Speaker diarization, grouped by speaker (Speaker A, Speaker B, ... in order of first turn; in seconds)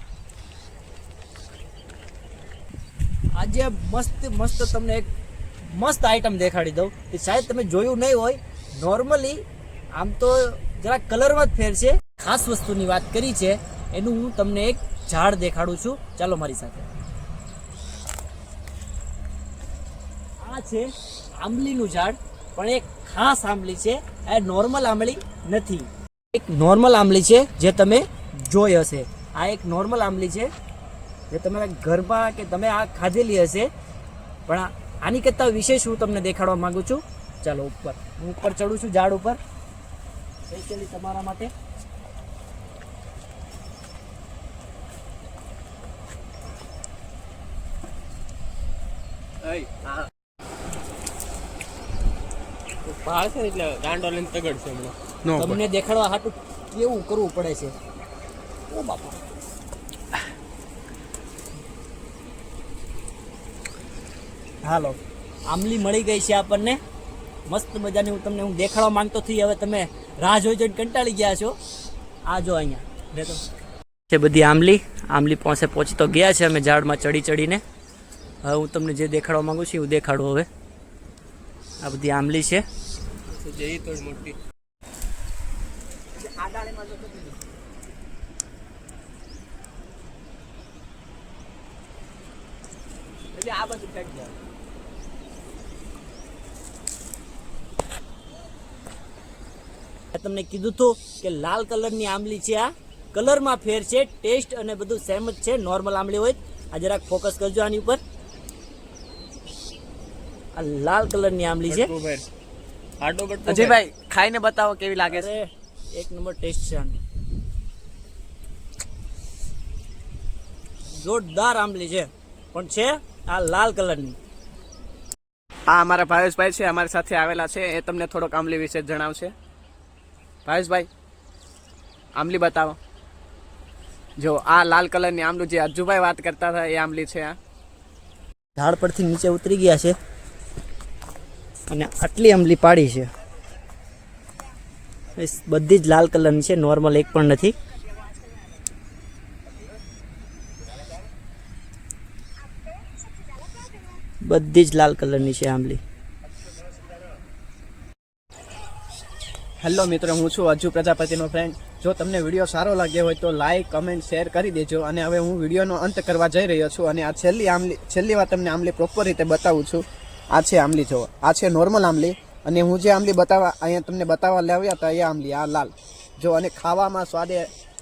Speaker A: 3.4-5.1, 5.6-9.4, 9.9-16.9, 20.4-30.5, 31.3-33.7, 34.5-39.4, 40.5-41.5, 55.4-57.7, 58.7-59.2, 64.6-66.8, 67.5-71.6, 72.3-73.4, 74.1-77.6, 78.4-80.5, 81.8-82.7, 100.1-108.0, 110.5-111.9, 115.1-117.0, 121.0-124.2, 138.6-140.0, 141.7-143.1, 145.2-147.6, 154.3-155.8
Speaker B: 49.5-50.0, 55.2-55.6, 86.2-87.4, 93.3-94.3, 113.4-115.3, 125.7-129.3, 130.4-130.9, 132.2-132.8, 134.2-137.4, 159.6-177.5
Speaker C: 52.8-55.0, 83.3-84.4, 111.7-112.2, 113.0-113.8